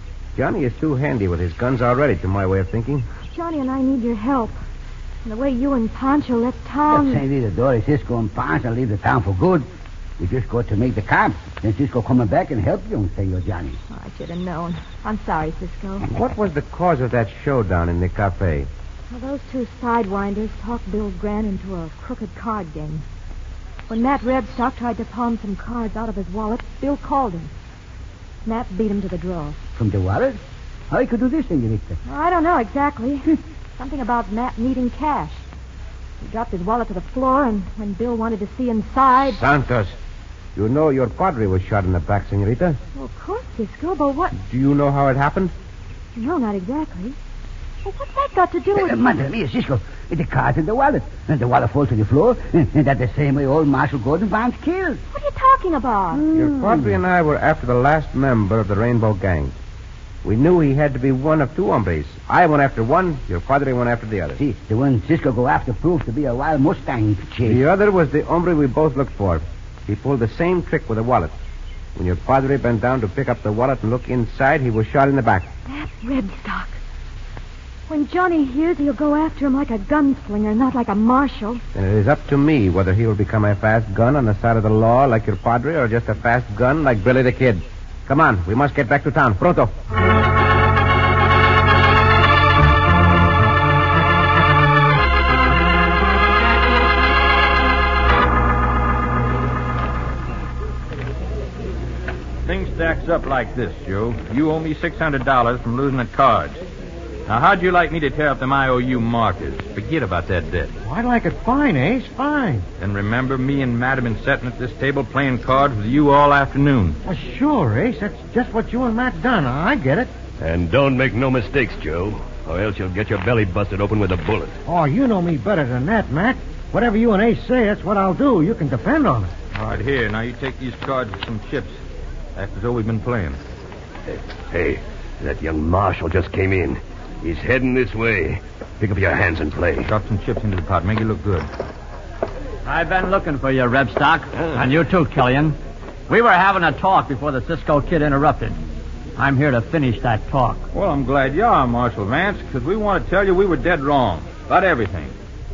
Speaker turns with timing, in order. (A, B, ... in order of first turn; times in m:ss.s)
0:00.3-0:03.1 A
0:03.3-0:04.6 B
0:05.2-0:07.2 B
0:06.9-0:09.7 C
0:10.2-0:13.8 C
0:13.9-0:16.0 B
0:16.0-0:18.7 A
0:19.1-0:23.0 B
0:23.9-0:27.5 B
0:28.4-0:29.6 B
0:29.8-0:32.0 C
0:32.0-0:35.4 B
0:36.2-0:39.4 B
0:39.2-0:40.0 A
0:40.5-0:42.8 A
0:42.9-0:44.3 B
0:44.3-0:45.5 A
0:46.2-0:47.2 B
0:47.8-0:49.0 B
0:48.7-0:55.0 C
0:55.1-0:56.3 B
0:56.1-0:57.0 C
0:56.3-0:59.5 A
1:00.2-1:04.4 A
1:04.4-1:07.6 C
1:07.4-1:11.3 A
1:11.9-1:15.5 A
1:15.7-1:16.8 B
1:17.9-1:21.6 B
1:21.7-1:29.7 A
1:42.4-1:46.6 D
1:47.3-1:50.7 D
1:50.8-1:52.6 E
1:52.8-1:57.0 D
1:57.0-2:00.1 E
2:00.4-2:04.5 F
2:04.6-2:09.3 E
2:09.5-2:11.8 D
2:12.4-2:13.4 D
2:14.1-2:19.9 F
2:19.8-2:21.5 D
2:22.6-2:25.6 G
2:26.1-2:28.6 G
2:29.2-2:30.6 G
2:30.7-2:35.1 D